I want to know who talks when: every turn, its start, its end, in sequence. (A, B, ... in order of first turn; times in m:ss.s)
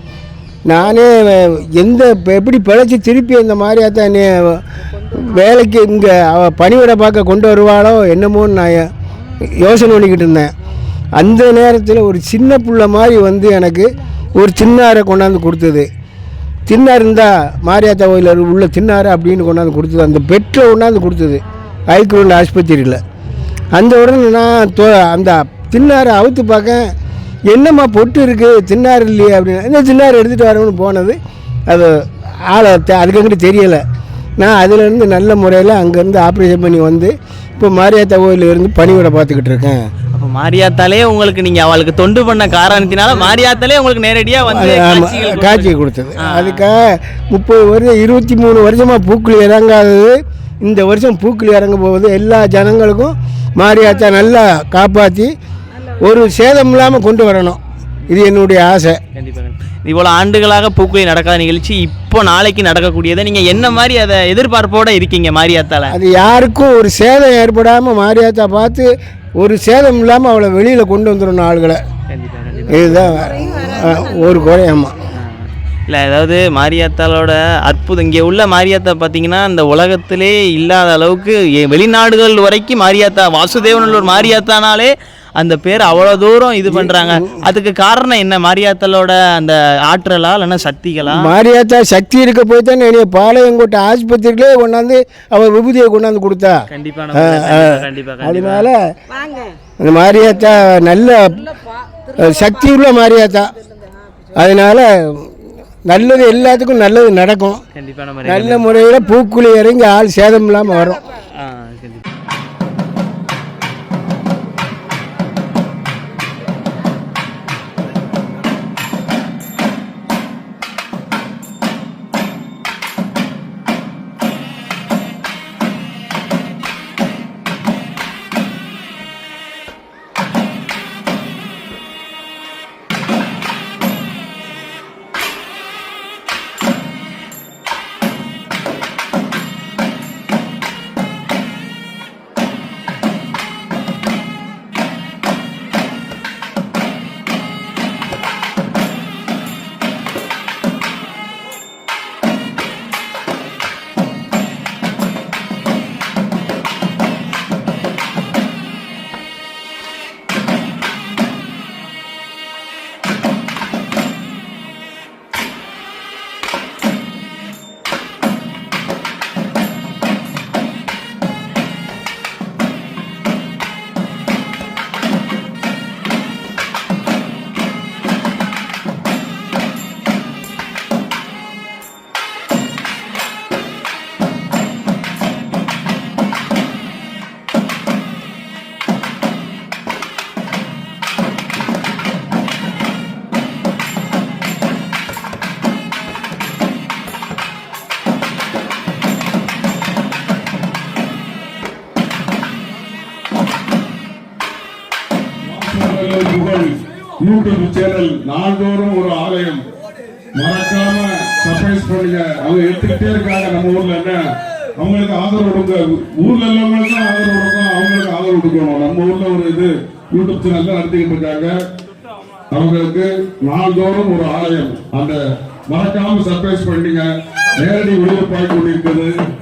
0:00.7-0:08.9 A
0:09.6-0:10.5 A
0:11.2-0:15.9 A
0:16.7-0:23.0 A
0:23.7-0:26.9 A
0:27.5-0:31.2 A
0:31.7-0:31.9 A
0:32.5-0:33.8 A
0:34.4-0:39.8 A
0:40.1-0:45.7 B
0:44.5-0:55.3 A
0:46.2-0:46.6 B
0:56.0-0:59.0 A
0:59.2-1:06.0 B
1:05.9-1:08.9 A
1:09.4-1:11.8 A
1:12.1-1:13.0 B
1:12.7-1:15.0 A
1:15.1-1:31.3 B
1:26.7-1:27.3 A
1:31.1-1:36.6 A
1:36.7-1:38.7 B
1:37.2-1:38.8 A
1:39.8-1:41.5 A
1:42.1-1:43.5 A
1:44.4-1:45.3 A
1:45.9-1:47.6 A
1:47.8-1:48.6 B
1:48.2-1:51.0 A
1:51.3-1:52.0 B
3:25.5-3:29.6 C
3:30.4-3:34.2 C
3:34.8-3:41.5 C
3:42.5-3:47.1 C
3:47.6-3:49.1 C